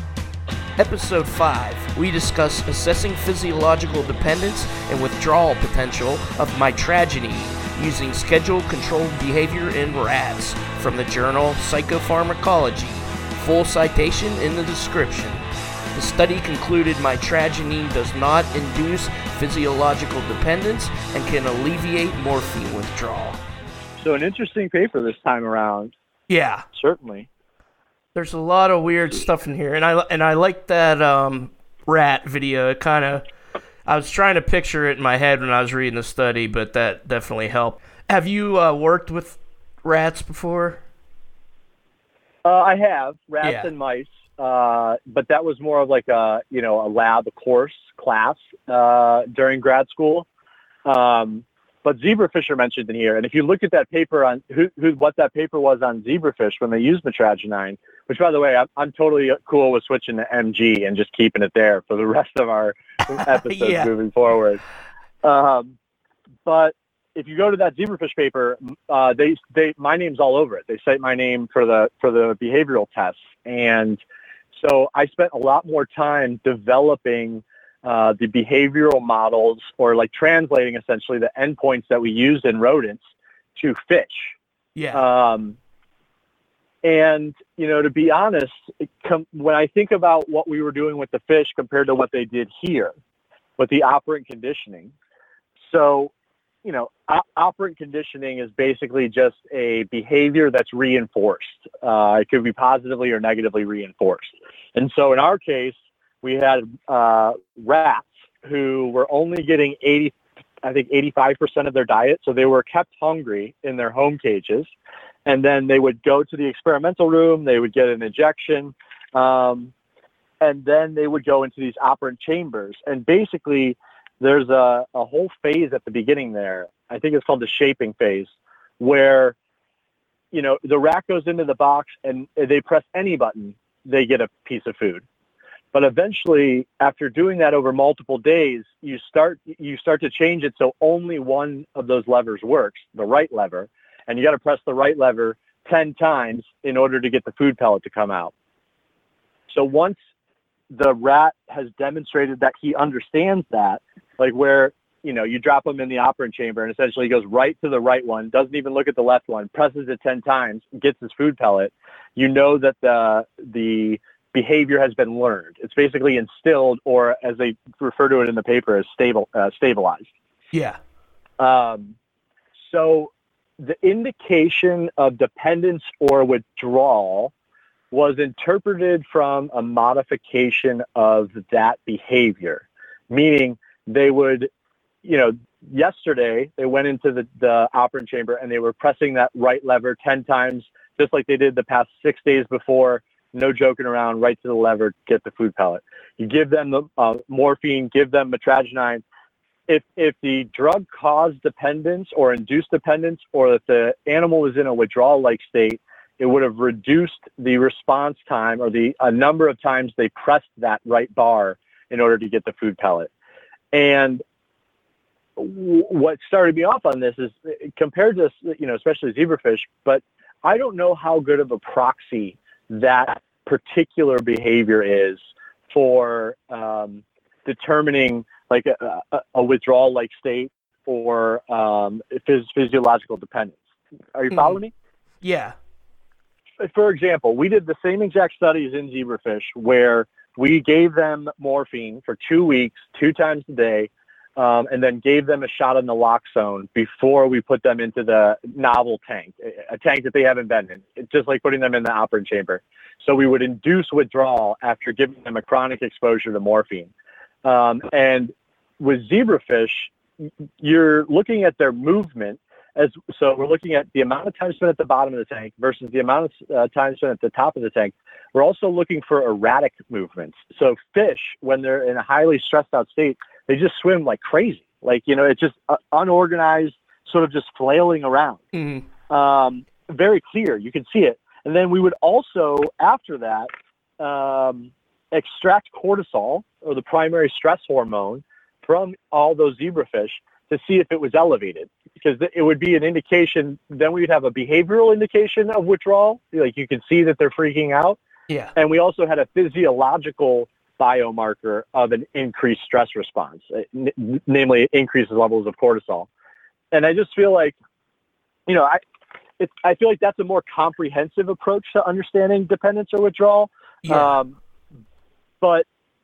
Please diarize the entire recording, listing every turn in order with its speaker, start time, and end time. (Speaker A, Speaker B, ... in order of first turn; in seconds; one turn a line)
Speaker A: 0.8-15.4
Speaker A: 15.9-23.4
Speaker B: 24.0-25.9
Speaker A: 26.3-26.7
Speaker B: 26.7-27.3
Speaker A: 28.1-33.2
Speaker A: 33.9-40.8
Speaker B: 42.5-50.3
Speaker A: 43.4-43.7
Speaker B: 50.9-64.6
Speaker A: 63.1-63.9
Speaker B: 65.2-65.8
Speaker B: 66.5-74.0
Speaker B: 74.5-84.4
Speaker A: 84.8-85.0
Speaker B: 84.9-85.6
Speaker B: 86.8-92.9
Speaker B: 93.6-94.9
Speaker B: 95.6-96.1
Speaker B: 96.6-114.7
Speaker B: 115.3-119.7
Speaker B: 120.4-129.3
Speaker B: 130.3-135.1
Speaker B: 135.7-148.3
Speaker B: 149.5-150.0
Speaker B: 150.7-170.1
Speaker A: 170.5-170.8
Speaker B: 171.4-171.9
Speaker B: 172.6-177.3
Speaker B: 177.9-184.5
Speaker B: 185.0-199.0
Speaker B: 199.7-213.1
Speaker B: 213.7-214.2
Speaker B: 215.4-233.6
Speaker B: 234.1-234.7
Speaker A: 234.3-234.6
Speaker A: 235.2-235.6
Speaker B: 236.6-256.9
Speaker B: 257.4-278.4
Speaker A: 278.5-278.9
Speaker B: 279.1-298.0
Speaker A: 298.3-298.5
Speaker B: 298.6-306.1
Speaker B: 306.7-307.6
Speaker B: 308.5-308.8
Speaker B: 309.4-314.4
Speaker A: 313.8-314.2
Speaker B: 315.4-315.7